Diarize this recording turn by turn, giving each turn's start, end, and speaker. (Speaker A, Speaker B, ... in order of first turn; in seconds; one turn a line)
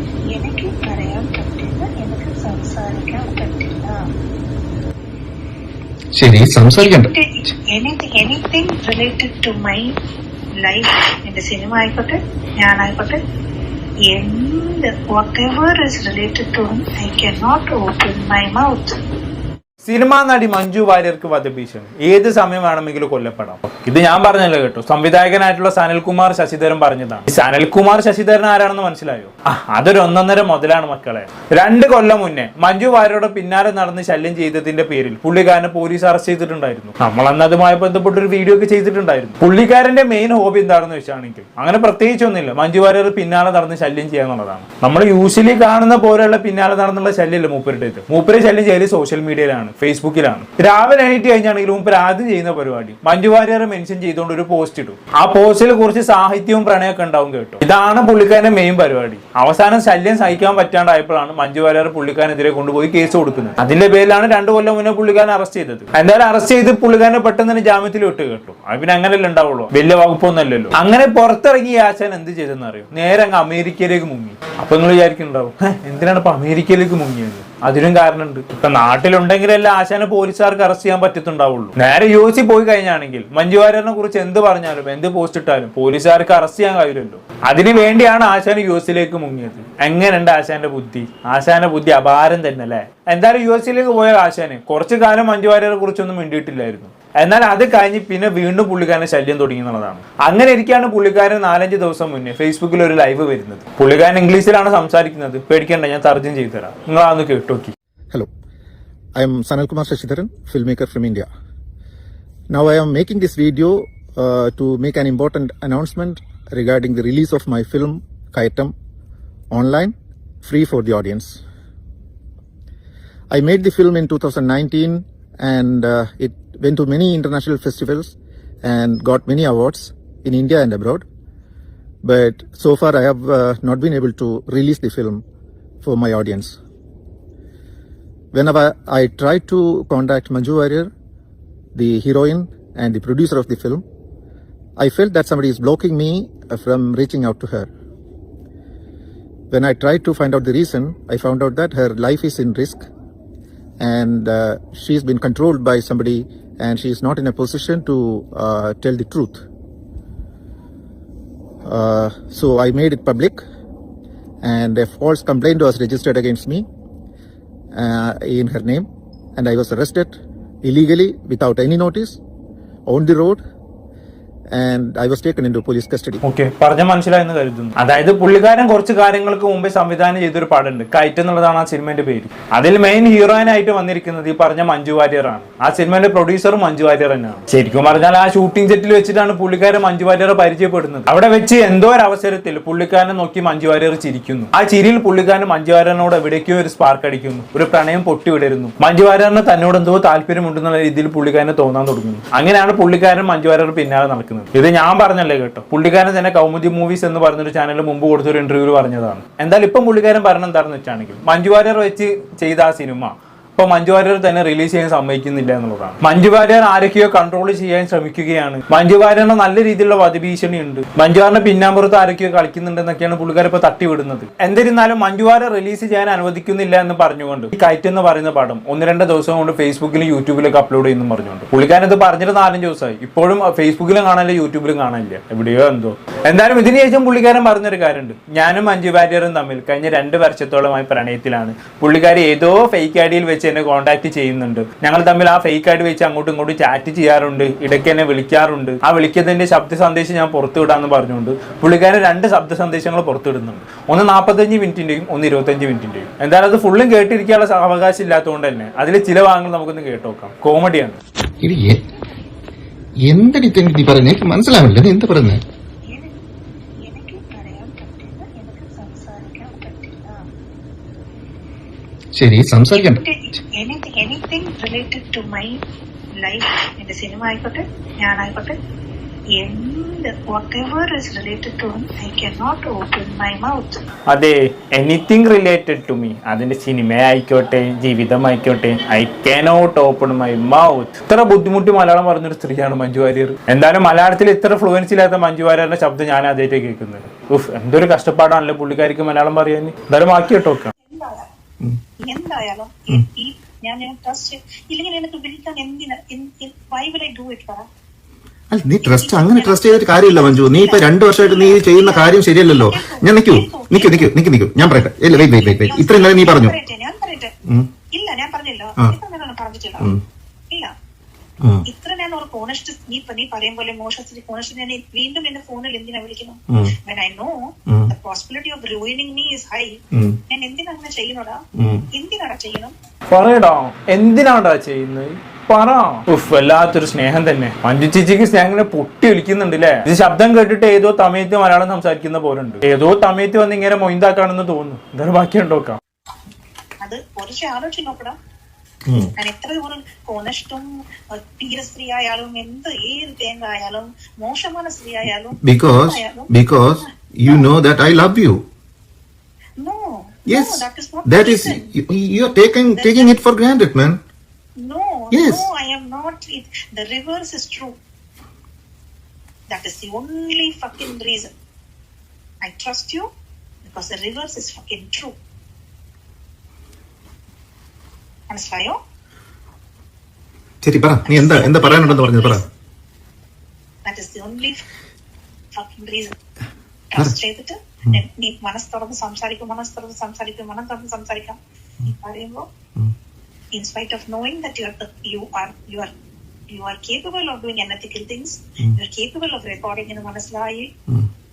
Speaker A: 0.3-4.0
Speaker B: 6.2-7.1
Speaker A: 6.8-9.9
Speaker A: 10.6-13.2
Speaker A: 14.1-19.0
Speaker C: 19.8-107.7
Speaker D: 109.1-111.3
Speaker D: 112.5-118.7
Speaker D: 119.5-121.4
Speaker D: 123.3-131.0
Speaker D: 132.0-135.2
Speaker D: 135.8-136.5
Speaker D: 138.3-140.9
Speaker D: 141.7-143.8
Speaker D: 144.8-147.7
Speaker D: 149.5-152.9
Speaker D: 153.8-159.4
Speaker D: 161.6-163.4
Speaker D: 164.4-166.7
Speaker D: 167.7-172.2
Speaker D: 172.9-173.4
Speaker D: 174.5-176.2
Speaker C: 176.2-261.0
Speaker B: 261.4-261.8
Speaker B: 263.0-265.4
Speaker A: 265.9-266.2
Speaker A: 266.8-270.3
Speaker B: 272.1-273.0
Speaker A: 272.7-275.6
Speaker A: 276.2-278.6
Speaker A: 279.3-283.8
Speaker C: 284.1-300.7
Speaker A: 300.8-301.3
Speaker A: 302.0-307.7
Speaker B: 308.5-316.6
Speaker A: 308.8-314.1
Speaker A: 314.6-317.3
Speaker A: 317.9-319.9
Speaker A: 321.6-332.7
Speaker B: 331.6-331.8
Speaker C: 333.1-345.8
Speaker A: 346.8-348.1
Speaker A: 349.1-357.5
Speaker B: 355.4-358.4
Speaker A: 359.6-361.6
Speaker B: 360.3-364.0
Speaker A: 362.7-363.2
Speaker A: 364.6-367.8
Speaker B: 365.1-365.4
Speaker A: 369.5-371.3
Speaker A: 372.4-373.1
Speaker A: 373.6-375.1
Speaker A: 378.3-378.8
Speaker B: 380.6-382.4
Speaker A: 381.1-382.4
Speaker A: 383.9-384.6
Speaker A: 385.5-386.1
Speaker A: 386.9-392.4
Speaker A: 393.5-395.9
Speaker A: 396.5-400.7